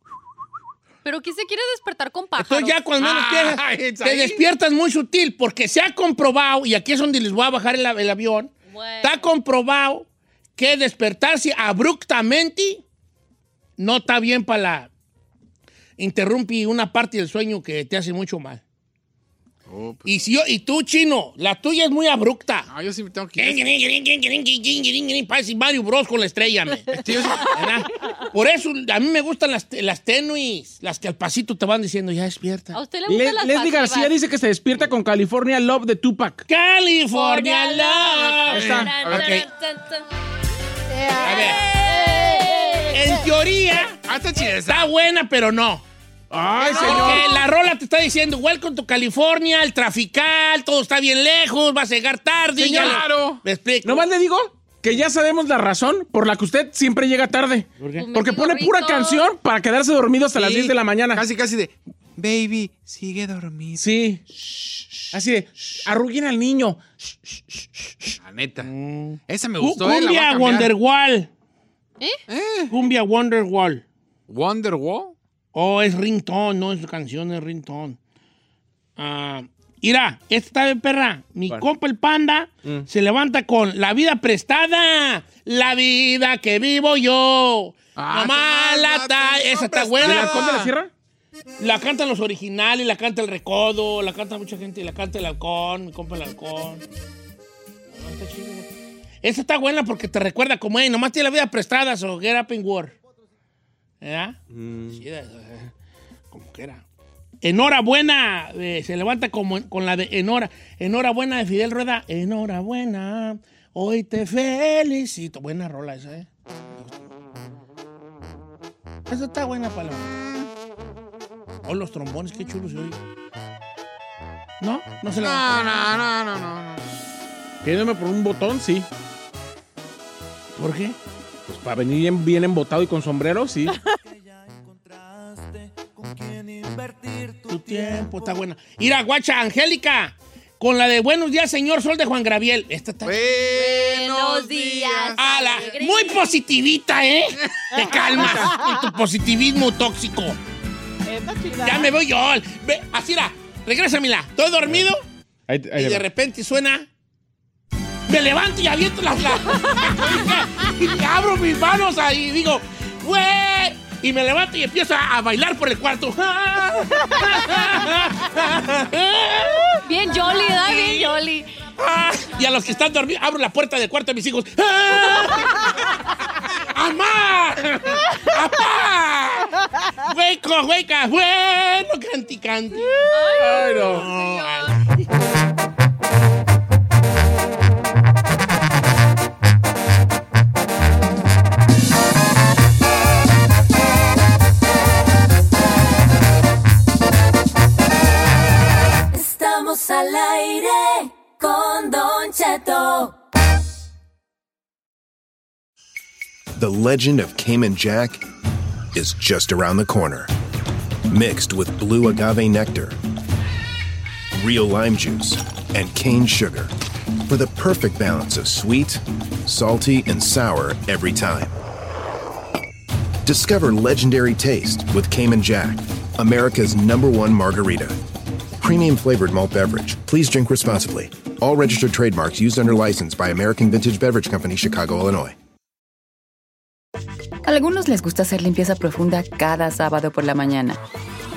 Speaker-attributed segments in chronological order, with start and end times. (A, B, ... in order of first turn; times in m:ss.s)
0:01.0-0:02.8 A
0:02.4-0:12.8 B
0:03.0-0:04.4 C
0:08.7-0:09.3 A
0:13.8-0:14.9 B
0:16.0-0:18.6 B
0:19.7-0:20.0 C
0:20.0-0:22.7 B
0:22.7-0:23.6 C
0:23.4-0:32.8 B
0:26.9-0:27.7 C
0:32.7-0:34.1 A
0:33.1-0:36.4 D
0:36.4-0:39.5 B
0:37.1-0:40.0 A
0:38.5-0:38.9 D
0:38.5-0:39.4 C
0:40.9-0:43.2 E
0:41.2-0:43.1 A
0:41.2-0:41.6 B
0:42.9-0:45.8 B
0:44.0-0:44.9 C
0:46.3-0:47.4 D
0:46.6-0:54.1 B
0:46.7-0:47.4 A
0:52.6-0:53.0 D
0:52.6-0:53.4 C
0:53.8-1:01.2 D
0:57.8-0:58.1 B
0:58.0-0:59.2 A
1:00.3-1:03.9 C
1:03.8-1:04.2 D
1:04.4-1:05.0 C
1:05.1-1:08.2 D
1:08.2-1:08.7 C
1:08.6-1:11.3 B
1:09.3-1:10.7 C
1:12.3-1:12.7 C
1:12.7-1:13.8 B
1:14.3-1:15.1 C
1:15.5-1:18.0 B
1:19.0-1:30.6 B
1:28.0-1:30.7 C
1:30.0-1:30.9 D
1:31.6-1:36.8 B
1:37.9-1:38.7 B
1:39.2-1:43.0 B
1:44.0-1:45.7 B
1:44.5-1:45.0 D
1:46.3-1:46.8 B
1:47.4-1:57.1 B
1:59.1-2:00.1 B
2:00.1-2:00.5 C
2:01.6-2:03.0 B
2:04.6-2:05.7 B
2:05.2-2:06.8 C
2:07.6-2:08.9 D
2:10.6-2:11.0 B
2:11.5-2:13.7 D
2:17.3-2:23.3 B
2:23.0-2:25.7 C
2:23.5-2:26.3 A
2:25.2-2:30.4 B
2:27.4-2:28.3 C
2:27.7-2:28.9 E
2:28.2-2:28.5 D
2:31.0-2:31.9 E
2:31.6-2:35.0 B
2:35.5-2:36.0 D
2:35.7-2:36.9 B
2:38.1-2:49.8 B
2:49.8-2:51.5 A
2:50.4-2:51.2 B
2:51.8-2:55.9 B
2:56.4-3:03.0 B
3:03.1-3:04.8 A
3:03.4-3:04.1 D
3:03.6-3:04.7 B
3:19.1-3:23.1 F
3:26.6-3:28.2 G
3:28.9-3:30.3 G
3:31.1-3:33.0 G
3:34.3-3:36.7 G
3:37.2-3:41.5 G
3:43.2-3:48.0 G
3:48.6-3:55.3 G
3:57.4-4:00.8 H